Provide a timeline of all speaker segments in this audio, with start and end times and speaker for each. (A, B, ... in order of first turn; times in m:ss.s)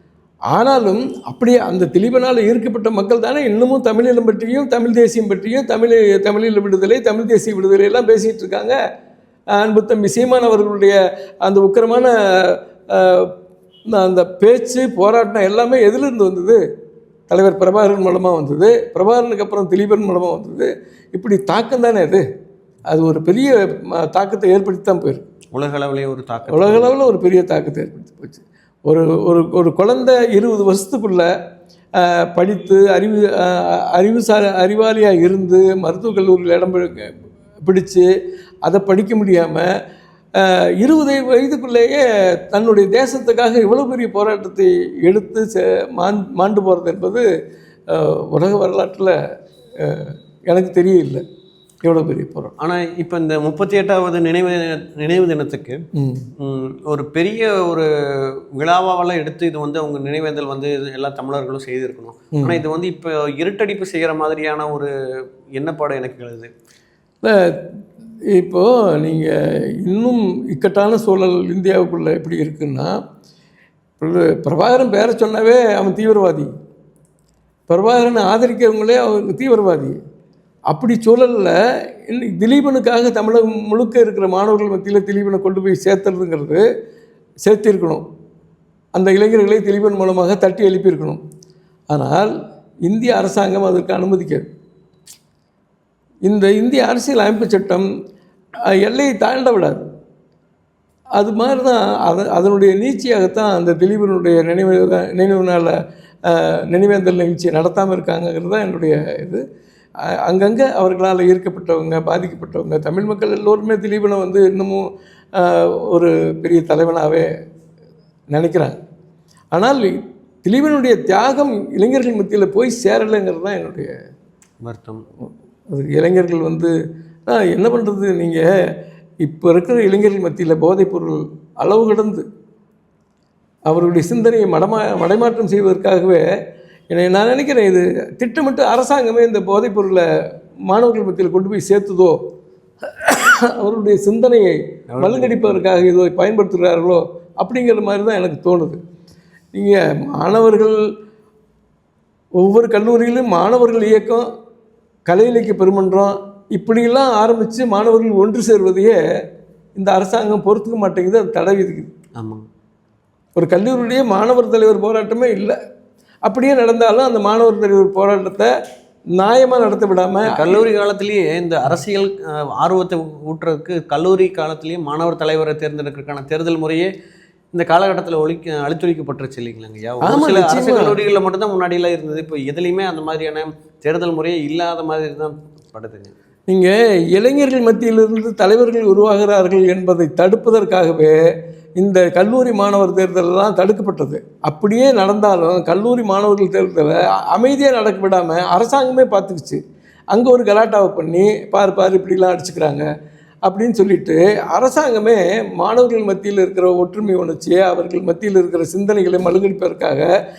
0:00.5-0:08.8 A
0:09.5-0:13.3 A
0:13.9-0:16.6 A
0:17.3-0:22.2 A
0:22.9-0:25.2 A
0:25.5-0:27.0 B
0:26.5-0:31.3 A
0:32.0-0:38.0 A
0:38.7-0:39.7 A
0:40.4-0:47.2 A
0:47.9-0:49.1 A
0:49.8-0:51.2 A
0:51.8-0:52.5 A
0:52.6-0:55.8 B
0:56.0-0:56.3 A
0:56.4-1:04.9 B
1:02.4-1:02.6 A
1:05.6-1:06.5 B
1:07.2-1:07.7 A
1:08.3-1:12.9 A
1:14.0-1:16.5 A
1:17.7-1:20.0 A
1:20.7-1:21.6 A
1:22.1-1:26.6 A
1:27.5-1:28.0 A
1:29.0-1:31.2 A
1:31.9-1:32.3 A
1:32.9-1:34.5 A
1:36.3-1:37.9 A
1:38.8-1:39.8 A
1:41.2-1:45.7 A
1:46.3-1:49.4 A
1:50.3-1:54.8 A
1:55.4-1:57.3 A
1:58.3-1:58.8 A
1:59.5-1:59.9 A
2:00.5-2:03.9 A
2:04.6-2:05.0 B
2:05.7-2:06.7 A
2:07.3-2:08.4 A
2:09.2-2:12.2 A
2:13.7-2:16.2 A
2:16.9-2:20.0 A
2:20.7-2:22.2 A
2:22.8-2:28.8 A
2:24.9-2:25.6 B
2:29.5-2:30.8 A
2:32.4-2:34.3 A
2:35.1-2:39.0 A
2:39.8-2:41.9 A
2:42.2-2:42.4 B
2:43.4-2:45.6 A
2:46.3-2:48.5 A
2:49.2-2:50.6 A
2:50.3-2:56.9 B
2:57.5-3:06.1 B
3:00.0-3:01.0 A
3:06.5-3:11.2 A
3:11.8-3:19.6 A
3:20.1-3:22.9 A
3:23.5-3:30.1 A